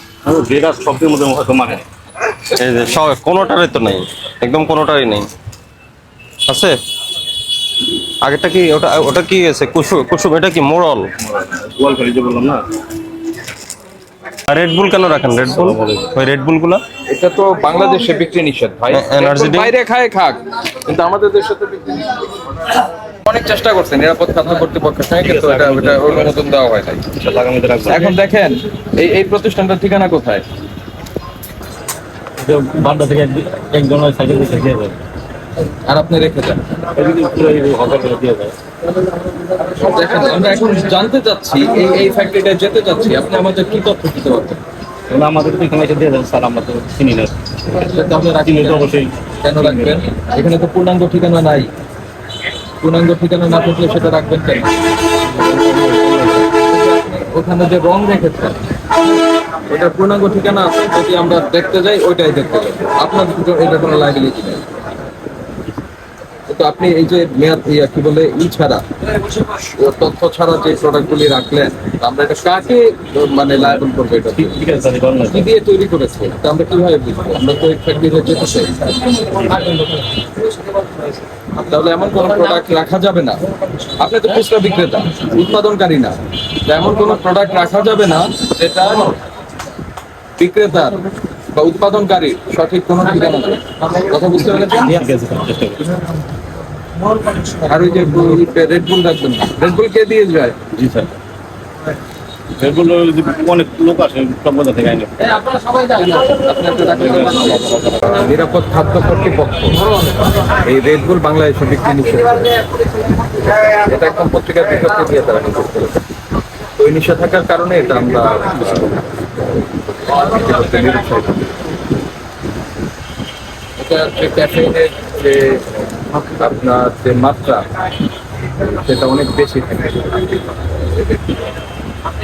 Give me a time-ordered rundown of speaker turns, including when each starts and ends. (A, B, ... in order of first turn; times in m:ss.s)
0:00.2-0:01.8 A
0:02.6-0:05.2 B
0:06.5-0:06.8 B
0:08.2-0:11.1 B
0:11.3-0:12.6 A
0:14.5-0:16.8 B
0:15.5-0:16.1 A
0:17.1-0:22.2 C
0:18.9-0:19.7 B
0:23.2-0:27.0 C
0:25.2-0:26.5 A
0:27.1-0:28.2 A
0:27.8-0:30.4 C
0:32.4-0:35.0 A
0:35.8-0:36.6 C
0:36.9-0:38.5 A
0:39.8-0:44.6 C
0:45.1-0:47.4 A
0:47.7-0:51.7 C
0:48.3-0:50.0 A
0:52.8-0:54.7 C
0:55.3-0:56.4 A
0:56.6-0:58.6 C
0:59.7-1:04.6 C
1:06.5-1:08.8 C
1:09.6-1:14.6 C
1:13.6-1:13.8 A
1:14.4-1:15.4 A
1:15.2-1:18.9 C
1:21.6-1:23.4 C
1:24.0-1:29.2 C
1:30.4-1:31.0 C
1:31.5-1:35.0 C
1:34.7-1:36.0 A
1:37.6-1:40.6 C
1:40.7-1:41.1 A
1:42.6-1:45.9 A
1:46.0-1:49.8 C
1:47.0-1:47.7 A
1:50.5-1:52.6 C
1:53.2-1:55.9 C
1:56.8-1:59.0 C
1:59.9-2:01.4 C
2:03.8-2:05.6 C
2:06.1-2:07.6 C
2:08.6-2:11.5 C